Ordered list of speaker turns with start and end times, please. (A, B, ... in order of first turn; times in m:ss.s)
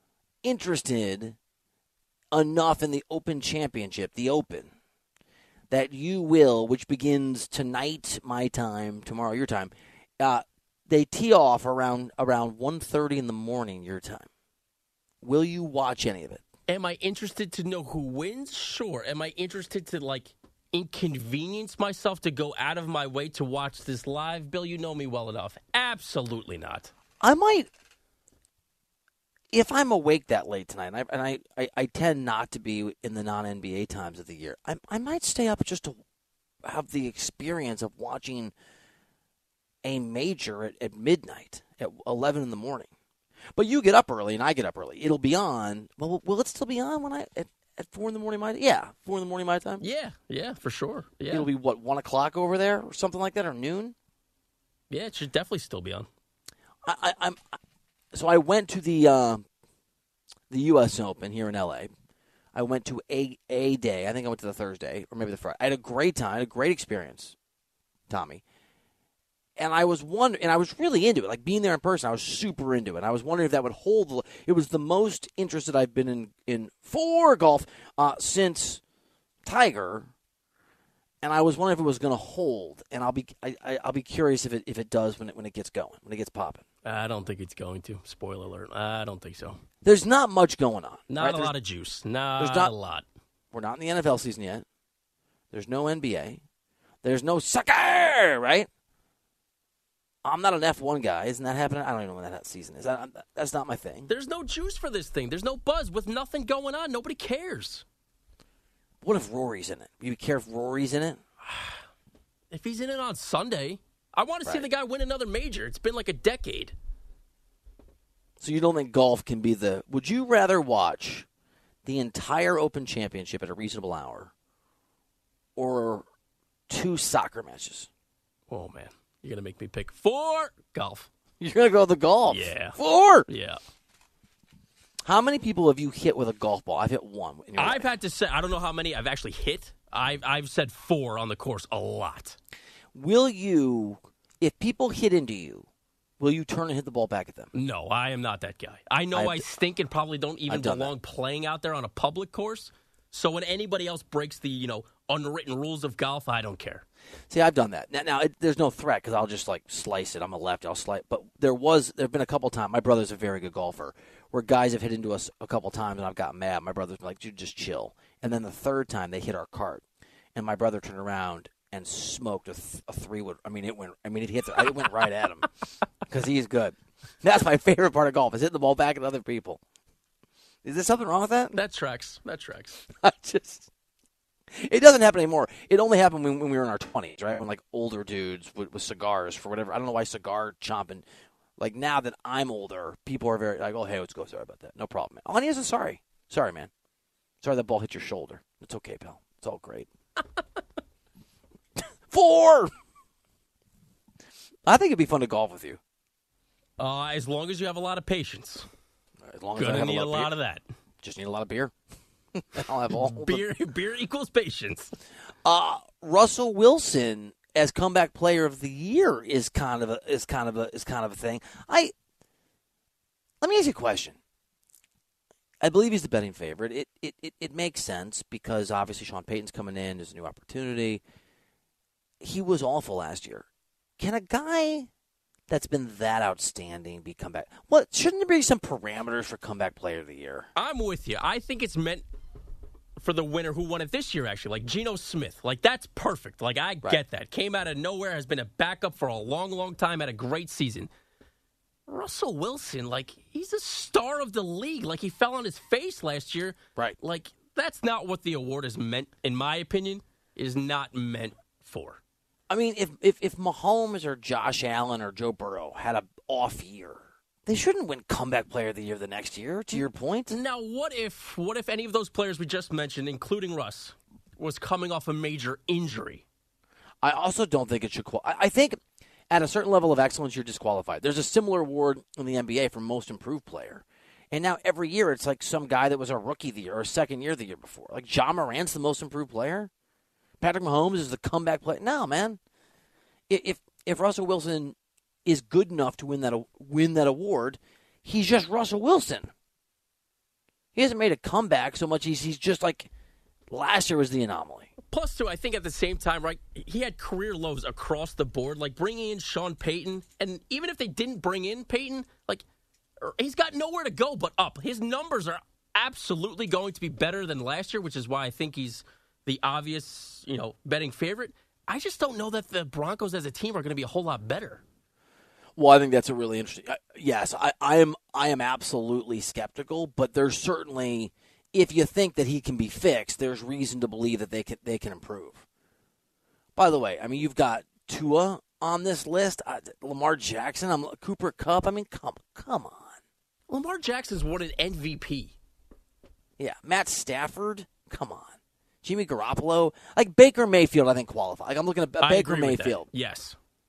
0:00.4-0:01.4 A
0:02.3-0:04.7 A
0:05.7-0:14.3 A
0:15.2-0:16.4 A
0:16.7-0:26.9 B
0:27.2-0:27.7 A
0:29.5-0:36.0 A
0:36.6-0:38.5 A
0:39.8-0:42.9 A
0:43.6-0:49.8 A
0:49.8-0:51.5 B
0:51.3-0:53.9 A
0:54.9-0:56.1 B
0:56.8-0:57.5 A
0:58.1-0:59.4 A
1:00.5-1:01.9 A
1:02.5-1:07.3 A
1:08.1-1:08.4 A
1:09.6-1:18.8 A
1:19.4-1:20.1 A
1:21.2-1:26.6 A
1:26.8-1:29.6 B
1:29.8-1:31.5 A
1:31.1-1:33.0 B
1:32.4-1:32.7 A
1:33.5-1:34.6 A
1:35.5-1:36.4 A
1:37.0-1:38.7 A
1:40.2-1:44.1 A
1:44.1-1:47.8 B
1:49.0-1:51.2 A
1:52.5-1:56.7 B
1:58.4-2:01.2 A
2:01.8-2:04.3 A
2:05.6-2:06.0 A
2:06.7-2:07.9 A
2:08.5-2:11.1 B
2:11.4-2:13.3 A
2:12.3-2:13.6 B
2:15.1-2:17.9 A
2:17.6-2:22.4 B
2:22.9-2:25.7 A
2:26.2-2:27.5 A
2:27.5-2:36.8 B
2:29.1-2:29.4 A
2:30.5-2:30.9 A
2:37.3-2:49.8 A
2:50.3-2:55.5 A
2:56.1-2:59.6 A
3:00.6-3:01.6 A
3:01.5-3:02.8 B
3:03.0-3:03.7 A
3:04.5-3:11.0 A
3:11.6-3:16.7 A
3:17.4-3:19.9 A
3:22.1-3:22.7 A
3:24.7-3:25.8 A
3:26.8-3:28.6 B
3:29.3-3:30.3 A
3:29.6-3:30.6 B
3:31.0-3:31.7 A
3:32.3-3:33.4 A
3:32.9-3:34.9 B
3:35.4-3:41.9 A
3:43.4-3:44.2 A
3:45.6-3:51.0 A
3:52.2-3:53.4 A
3:54.0-3:54.9 A
3:55.5-4:00.5 A
4:00.6-4:02.0 B
4:03.0-4:10.9 B
4:11.9-4:22.0 B
4:22.5-4:30.4 A
4:29.7-4:36.2 B
4:37.0-4:38.8 A
4:39.3-4:49.7 A
4:50.4-4:52.4 A
4:53.3-4:54.7 A
4:55.2-4:59.3 A
5:00.7-5:02.9 A
5:03.5-5:04.7 A
5:04.9-5:12.4 B
5:13.0-5:24.6 B
5:25.6-5:35.4 A
5:36.6-5:43.0 A
5:43.5-5:45.3 B
5:46.4-5:48.3 A
5:48.8-5:52.9 A
5:52.0-5:53.4 B